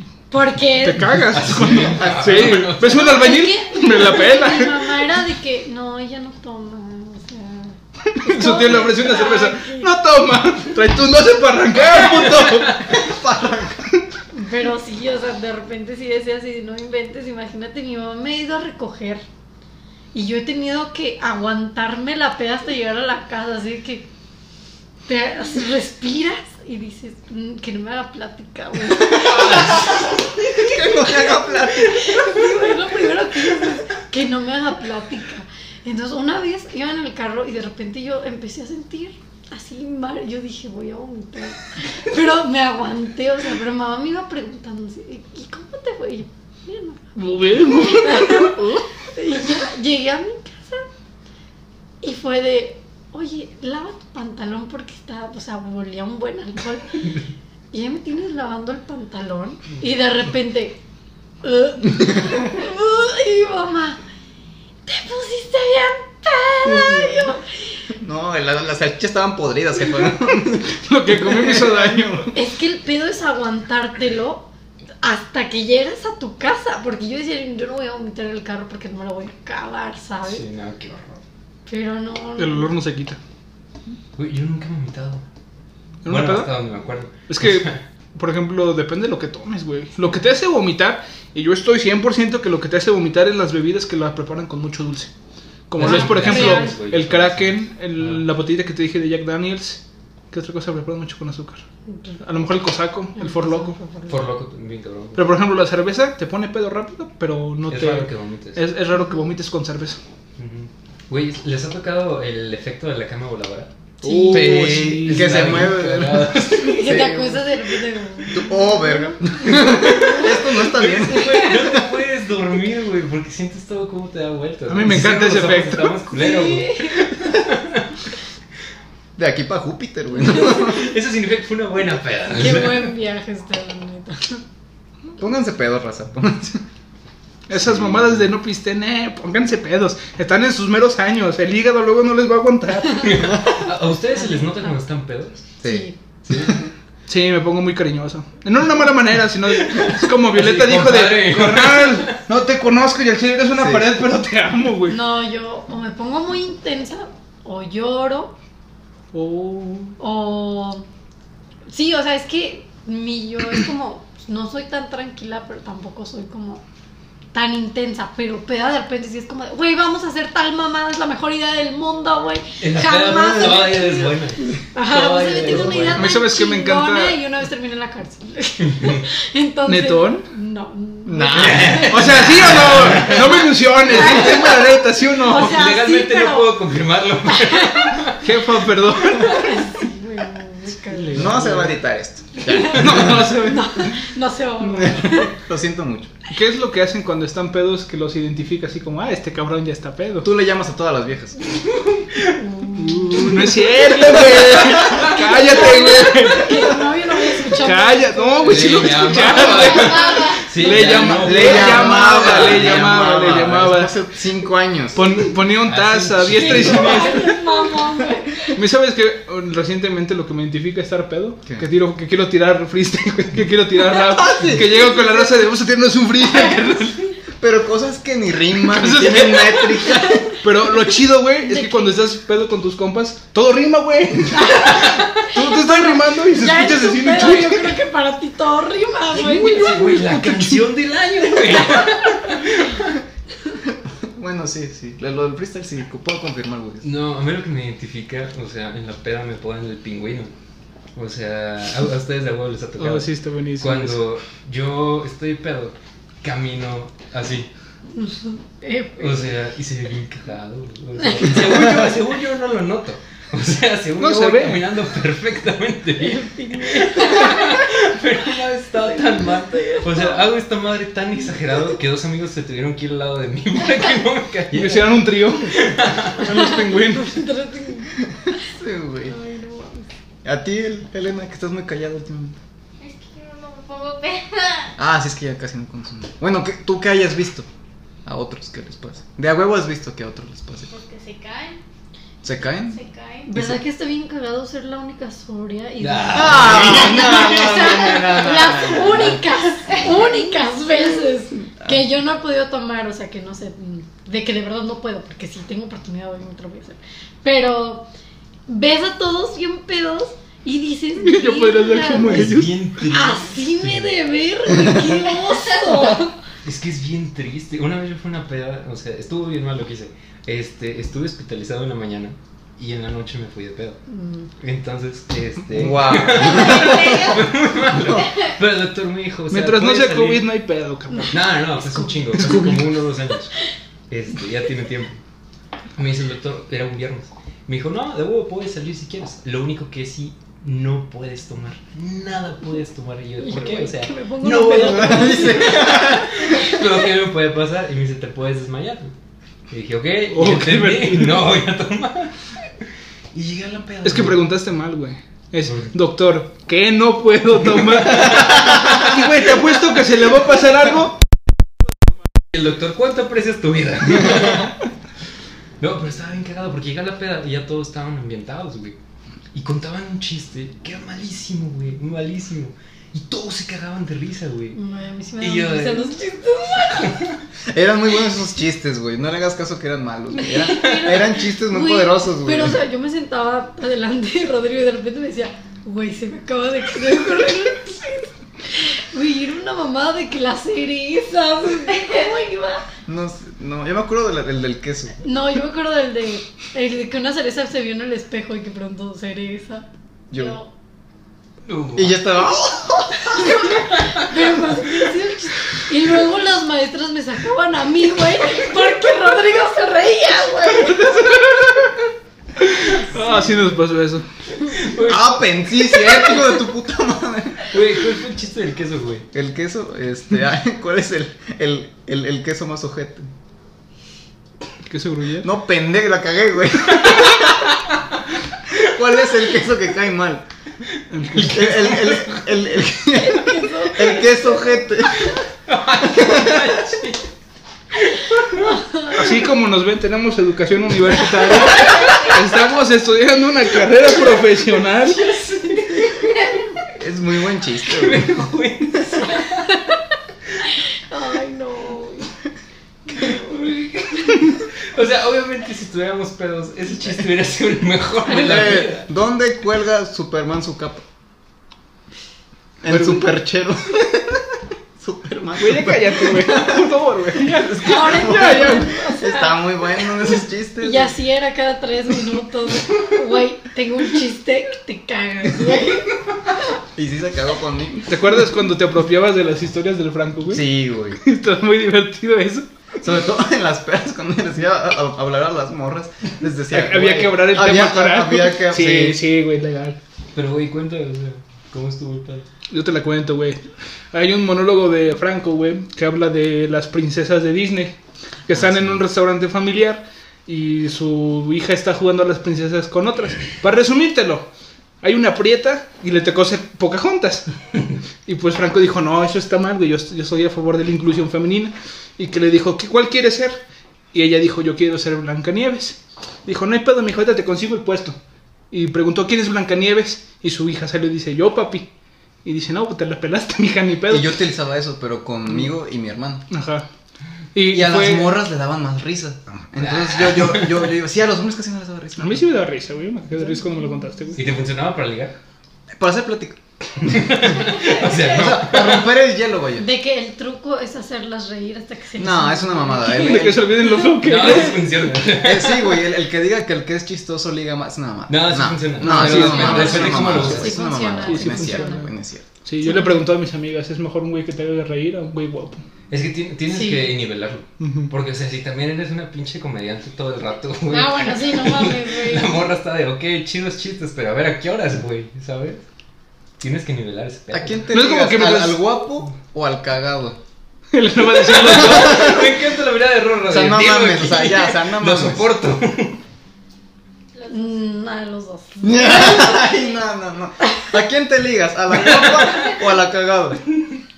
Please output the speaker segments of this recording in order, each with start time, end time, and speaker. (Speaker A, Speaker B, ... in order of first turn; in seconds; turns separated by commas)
Speaker A: 0.3-1.1, Speaker B: 0.7-5.0, Speaker C: 1.3-3.4, Speaker D: 1.8-2.7, Speaker A: 2.8-9.9, Speaker B: 8.2-12.8, Speaker C: 11.9-12.9, Speaker D: 12.8-13.9, Speaker A: 14.3-19.2, Speaker A: 20.1-24.1, Speaker A: 25.1-30.0, Speaker D: 29.2-32.4, Speaker C: 29.4-29.7, Speaker A: 30.8-50.9, Speaker B: 47.2-48.8, Speaker A: 52.0-57.1, Speaker A: 57.7-60.8, Speaker A: 61.4-64.0, Speaker A: 64.9-67.6, Speaker D: 66.6-67.4, Speaker D: 68.0-72.3, Speaker B: 70.8-72.3, Speaker A: 72.3-74.5, Speaker A: 75.0-80.5, Speaker C: 80.2-81.2, Speaker A: 81.7-82.7, Speaker B: 82.4-83.2, Speaker C: 84.2-85.2, Speaker B: 86.0-86.5, Speaker C: 86.1-87.8, Speaker B: 87.3-95.1, Speaker B: 95.7-101.6, Speaker C: 95.8-98.3, Speaker A: 95.8-96.8, Speaker A: 101.9-102.2, Speaker B: 102.2-103.8, Speaker A: 103.2-104.2, Speaker C: 104.1-105.4, Speaker B: 105.2-110.0, Speaker C: 107.7-108.6, Speaker A: 109.0-109.2, Speaker C: 110.4-113.7, Speaker B: 114.0-115.7, Speaker A: 114.0-114.5, Speaker D: 114.1-117.6, Speaker C: 114.4-117.0, Speaker A: 116.5-121.8, Speaker D: 118.3-121.8, Speaker C: 119.6-127.9, Speaker B: 124.7-126.0, Speaker A: 126.1-127.1, Speaker D: 129.2-130.9, Speaker C: 130.3-132.9, Speaker A: 132.3-134.4, Speaker D: 135.2-136.6, Speaker B: 137.5-143.3, Speaker C: 137.6-137.9, Speaker C: 143.0-145.5, Speaker A: 144.1-144.7, Speaker D: 145.6-146.6, Speaker A: 145.6-145.9, Speaker C: 146.3-146.6, Speaker B: 147.1-155.0, Speaker C: 149.5-152.2, Speaker D: 153.6-154.0, Speaker A: 154.9-158.3, Speaker B: 159.1-160.0, Speaker A: 160.0-160.8, Speaker A: 161.7-166.6, Speaker A: 167.3-186.6, Speaker C: 172.6-176.1, Speaker B: 175.9-177.2, Speaker B: 179.7-180.3, Speaker D: 181.1-182.0, Speaker C: 181.3-183.5, Speaker B: 181.9-185.6, Speaker C: 185.3-188.3, Speaker A: 187.3-188.0, Speaker B: 188.2-189.5, Speaker A: 189.0-191.4, Speaker B: 190.9-191.7, Speaker D: 191.1-193.4, Speaker A: 192.4-195.3, Speaker B: 192.7-193.9, Speaker D: 194.8-196.1, Speaker B: 196.3-200.3, Speaker D: 200.2-201.4, Speaker C: 201.8-202.3, Speaker A: 202.4-209.3, Speaker B: 202.8-206.7, Speaker B: 207.6-213.9, Speaker C: 208.4-213.0, Speaker E: 209.5-210.7, Speaker D: 211.1-215.1, Speaker B: 214.9-217.4, Speaker C: 215.6-217.3, Speaker A: 216.3-218.6, Speaker B: 218.5-227.1, Speaker D: 223.9-225.2, Speaker D: 227.4-230.4, Speaker B: 228.6-229.7, Speaker A: 229.9-230.4, Speaker B: 230.4-237.8, Speaker A: 231.4-232.0, Speaker A: 234.3-240.0, Speaker C: 239.1-243.0, Speaker B: 240.1-240.6, Speaker A: 241.6-241.9, Speaker D: 244.1-246.9, Speaker C: 246.8-250.3, Speaker C: 251.0-257.5, Speaker B: 252.8-254.0, Speaker A: 257.9-259.3, Speaker C: 259.0-276.2, Speaker A: 261.0-261.4, Speaker B: 264.0-264.6, Speaker A: 266.0-267.7, Speaker A: 268.9-270.2, Speaker B: 274.5-277.1, Speaker A: 276.2-278.0, Speaker D: 278.5-279.1, Speaker A: 279.1-279.9, Speaker D: 280.2-282.4, Speaker E: 282.8-284.7, Speaker D: 284.8-287.5, Speaker D: 288.1-290.7, Speaker E: 290.7-291.6, Speaker D: 292.2-292.8, Speaker E: 292.6-293.3, Speaker A: 293.3-307.9, Speaker D: 293.3-293.6, Speaker C: 295.8-297.7, Speaker D: 296.1-299.2, Speaker E: 299.7-300.0, Speaker A: 308.5-316.2, Speaker B: 311.0-312.5, Speaker C: 312.0-314.0, Speaker E: 315.3-315.8, Speaker C: 316.4-323.8, Speaker A: 323.9-324.3, Speaker C: 324.4-330.3, Speaker D: 325.5-327.2, Speaker E: 326.3-327.3, Speaker B: 329.3-331.2, Speaker C: 331.1-333.3, Speaker A: 331.8-332.5, Speaker B: 332.2-332.6, Speaker C: 333.9-335.0, Speaker C: 335.8-348.9, Speaker A: 343.2-346.6, Speaker D: 344.4-346.4, Speaker C: 349.5-352.1, Speaker B: 350.1-351.3, Speaker C: 353.1-354.3, Speaker B: 353.8-361.0, Speaker C: 355.5-355.7, Speaker C: 357.8-359.0, Speaker C: 362.3-364.6, Speaker C: 365.6-368.8, Speaker C: 369.3-374.6, Speaker A: 374.5-377.0, Speaker C: 375.2-377.2, Speaker D: 377.5-382.6, Speaker A: 380.2-392.7, Speaker E: 391.7-392.1, Speaker D: 392.9-395.0, Speaker A: 395.0-399.7, Speaker D: 400.1-400.4, Speaker C: 401.4-402.0, Speaker D: 401.7-403.5, Speaker A: 403.4-411.2, Speaker B: 410.8-411.5, Speaker B: 412.4-414.1, Speaker C: 414.4-415.2, Speaker D: 414.8-417.5, Speaker C: 417.5-419.1, Speaker D: 419.1-423.1, Speaker B: 424.6-425.3, Speaker D: 425.2-427.5, Speaker D: 428.5-430.2, Speaker B: 430.9-431.6, Speaker C: 431.1-432.2, Speaker D: 431.2-435.1, Speaker A: 432.9-434.6, Speaker C: 435.1-437.1, Speaker D: 435.9-436.6, Speaker C: 437.7-439.0, Speaker A: 438.4-439.0, Speaker B: 438.9-445.0, Speaker E: 441.8-442.1, Speaker C: 444.8-446.2, Speaker D: 446.8-448.2, Speaker C: 447.6-449.5, Speaker A: 450.8-452.1, Speaker A: 452.9-453.4, Speaker C: 453.0-458.9, Speaker D: 458.1-460.8, Speaker D: 462.6-464.2, Speaker B: 462.7-463.1, Speaker D: 464.8-466.7, Speaker B: 465.4-468.7, Speaker D: 467.2-470.9, Speaker A: 467.6-469.9, Speaker A: 470.6-475.9, Speaker D: 476.7-477.9, Speaker B: 477.9-480.5, Speaker D: 480.3-481.0, Speaker B: 481.0-482.5, Speaker D: 482.8-489.0, Speaker B: 486.5-489.8, Speaker C: 490.1-492.3, Speaker B: 492.5-497.8, Speaker B: 498.3-504.3, Speaker D: 498.3-498.6, Speaker B: 504.8-507.4, Speaker B: 508.1-513.4, Speaker B: 513.9-518.0, Speaker B: 518.5-521.7, Speaker B: 522.2-524.2, Speaker D: 523.9-526.3, Speaker B: 526.3-526.7, Speaker B: 527.3-528.2, Speaker D: 527.5-532.2, Speaker C: 529.6-530.7, Speaker B: 532.0-534.2, Speaker A: 533.2-533.8, Speaker C: 534.1-535.1, Speaker D: 535.8-536.4, Speaker C: 536.8-538.9, Speaker D: 537.6-539.7, Speaker A: 539.6-544.3, Speaker D: 542.0-543.7, Speaker B: 542.8-544.9, Speaker C: 544.0-545.8, Speaker D: 545.1-552.3, Speaker C: 548.1-550.6, Speaker B: 548.8-550.5, Speaker A: 549.4-551.9, Speaker B: 551.0-551.9, Speaker B: 552.5-555.6, Speaker A: 552.6-553.0, Speaker C: 555.9-565.6, Speaker A: 556.5-556.9, Speaker B: 557.6-557.9, Speaker A: 560.7-562.5, Speaker C: 566.4-567.7, Speaker D: 567.3-570.2, Speaker B: 567.7-568.6, Speaker B: 570.7-572.1, Speaker C: 571.2-576.0, Speaker D: 571.5-572.3, Speaker D: 573.3-575.3, Speaker E: 577.1-577.6, Speaker A: 577.3-579.5, Speaker D: 578.6-583.4, Speaker C: 581.8-582.5